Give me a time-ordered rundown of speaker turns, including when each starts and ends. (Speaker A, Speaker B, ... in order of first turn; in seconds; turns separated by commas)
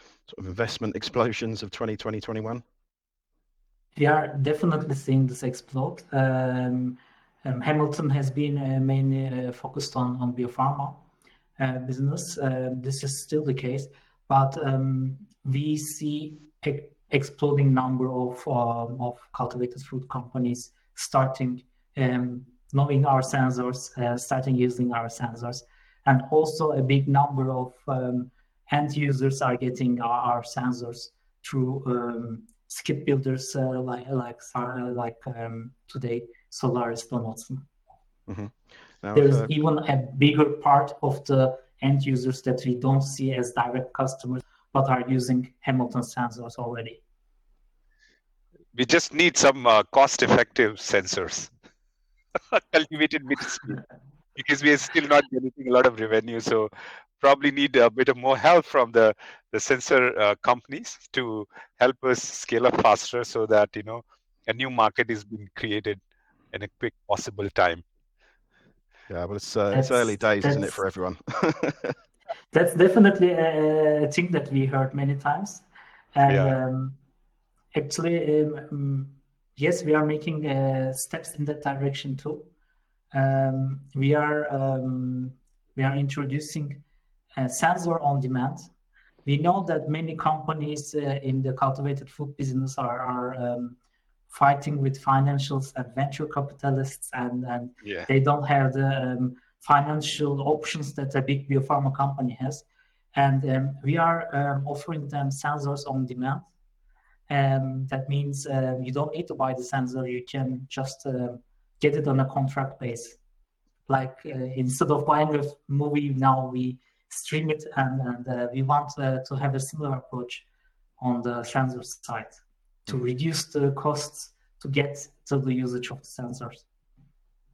Speaker A: 0.3-2.6, Speaker B: 4.0-11.0, Speaker B: 11.6-37.7, Speaker A: 38.3-39.5, Speaker B: 39.1-47.0, Speaker C: 48.8-51.5, Speaker C: 52.5-53.8, Speaker C: 54.4-66.0, Speaker C: 66.5-67.8, Speaker A: 69.1-72.0, Speaker B: 69.7-70.8, Speaker B: 72.5-77.0, Speaker C: 76.3-76.5, Speaker B: 77.7-82.5, Speaker B: 83.1-86.8, Speaker B: 87.4-88.7, Speaker B: 89.2-93.8, Speaker B: 94.3-106.5, Speaker B: 107.3-113.2, Speaker B: 113.9-120.4, Speaker B: 121.0-126.6